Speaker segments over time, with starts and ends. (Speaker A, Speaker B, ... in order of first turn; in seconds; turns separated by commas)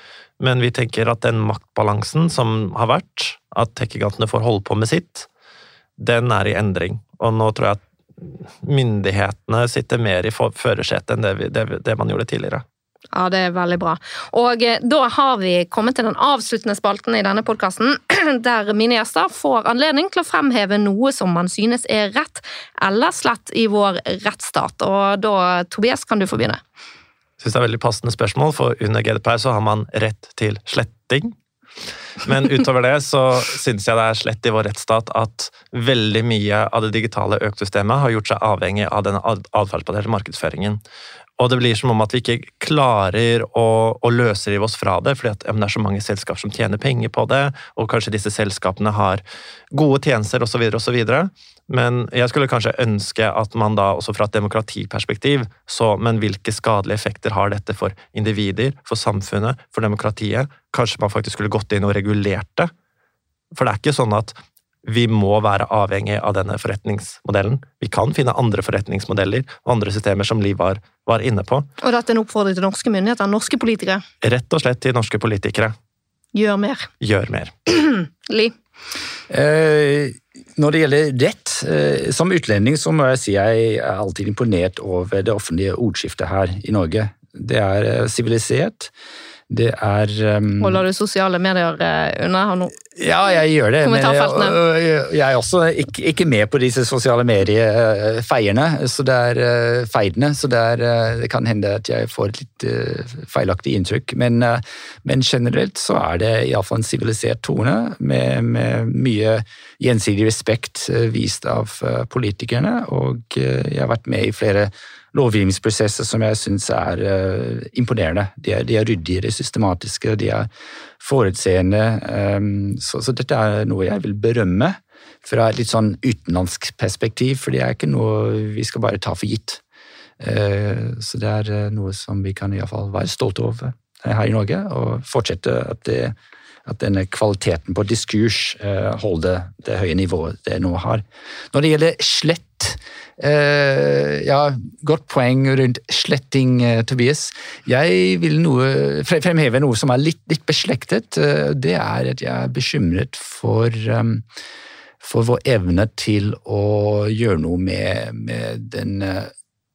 Speaker A: 0.4-5.3, Speaker A: 6.0-12.6, Speaker B: 13.1-26.6, Speaker A: 27.4-31.3, Speaker A: 32.2-40.8, Speaker A: 41.4-62.7, Speaker A: 63.5-71.7, Speaker B: 71.8-74.0, Speaker A: 74.2-75.7, Speaker B: 76.3-76.9, Speaker A: 77.0-77.5, Speaker B: 77.7-78.5, Speaker C: 79.3-88.9, Speaker C: 89.5-90.8, Speaker B: 90.6-92.8, Speaker C: 93.0-120.5, Speaker B: 93.8-94.6, Speaker C: 121.0-129.6, Speaker C: 130.2-136.1, Speaker C: 136.7-154.2, Speaker C: 155.0-159.3